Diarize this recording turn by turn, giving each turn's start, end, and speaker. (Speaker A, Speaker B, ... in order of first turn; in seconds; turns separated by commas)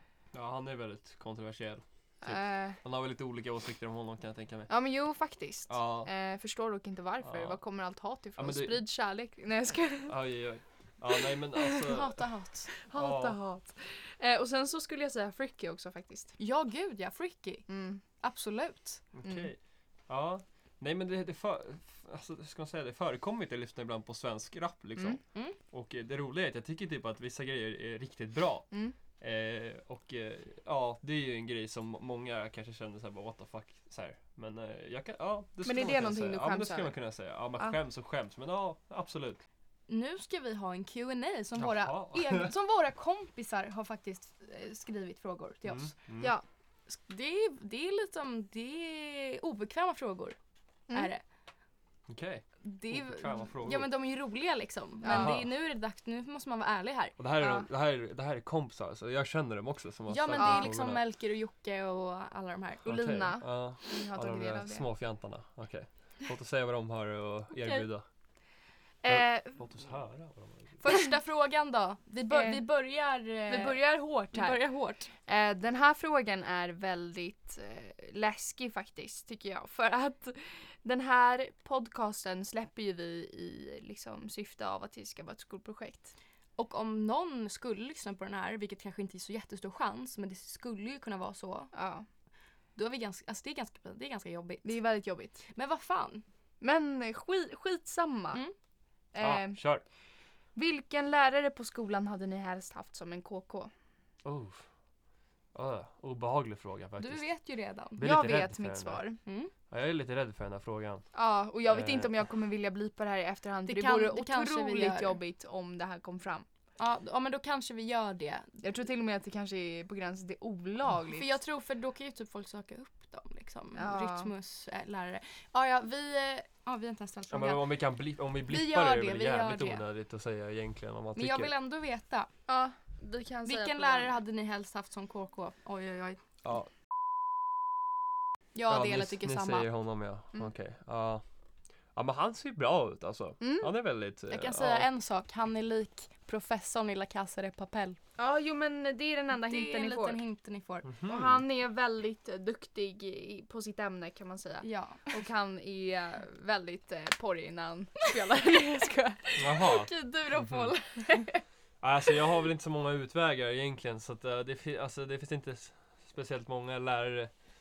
Speaker A: 0.3-4.7, Speaker B: 2.2-2.8, Speaker B: 4.7-10.2, Speaker A: 5.7-6.1, Speaker A: 7.2-7.6, Speaker A: 8.4-8.8, Speaker A: 10.1-12.2, Speaker B: 11.6-11.8, Speaker C: 11.8-12.7, Speaker B: 12.8-16.4, Speaker A: 12.9-13.4, Speaker C: 16.4-19.1, Speaker B: 17.7-18.0, Speaker A: 19.1-39.4, Speaker B: 35.6-37.0, Speaker C: 39.9-46.0, Speaker A: 41.6-42.5, Speaker A: 45.6-46.3, Speaker C: 46.9-50.4, Speaker C: 50.9-51.2, Speaker A: 52.1-53.9, Speaker C: 52.6-57.2, Speaker B: 55.0-55.4, Speaker A: 55.1-55.5, Speaker A: 57.2-61.0, Speaker C: 60.1-63.0, Speaker B: 60.4-60.7, Speaker B: 62.9-64.8, Speaker A: 62.9-68.0, Speaker C: 67.5-67.9, Speaker B: 69.0-69.6, Speaker A: 69.1-70.8, Speaker C: 70.8-75.1, Speaker B: 72.3-72.7, Speaker B: 73.5-74.6, Speaker B: 75.2-86.1, Speaker C: 86.6-91.7, Speaker B: 91.7-92.1, Speaker C: 92.8-94.8, Speaker B: 94.6-95.4, Speaker C: 95.5-96.2, Speaker B: 96.6-98.4, Speaker B: 99.1-99.6, Speaker A: 99.2-99.8, Speaker B: 100.5-103.7, Speaker A: 104.2-104.6, Speaker A: 105.5-107.3, Speaker C: 107.0-108.0, Speaker A: 108.0-109.0, Speaker B: 108.0-109.2, Speaker C: 109.3-109.5, Speaker A: 109.7-111.1, Speaker B: 111.1-116.5, Speaker A: 111.7-112.2, Speaker C: 113.7-115.2, Speaker C: 116.8-118.5, Speaker B: 118.6-121.3, Speaker C: 121.1-127.7, Speaker B: 123.8-124.3, Speaker A: 127.3-131.5, Speaker C: 128.5-129.8, Speaker C: 131.2-132.3, Speaker B: 132.5-134.1, Speaker C: 133.4-136.2, Speaker A: 136.4-136.7, Speaker C: 138.6-139.7, Speaker A: 138.7-141.2, Speaker A: 141.9-144.9, Speaker B: 143.4-143.7, Speaker C: 144.3-148.0, Speaker B: 148.2-150.2, Speaker C: 149.4-151.0, Speaker A: 150.8-151.4, Speaker B: 151.0-159.4, Speaker C: 154.6-155.1, Speaker C: 159.4-161.4, Speaker A: 159.4-159.9, Speaker A: 160.4-160.7, Speaker A: 161.8-167.3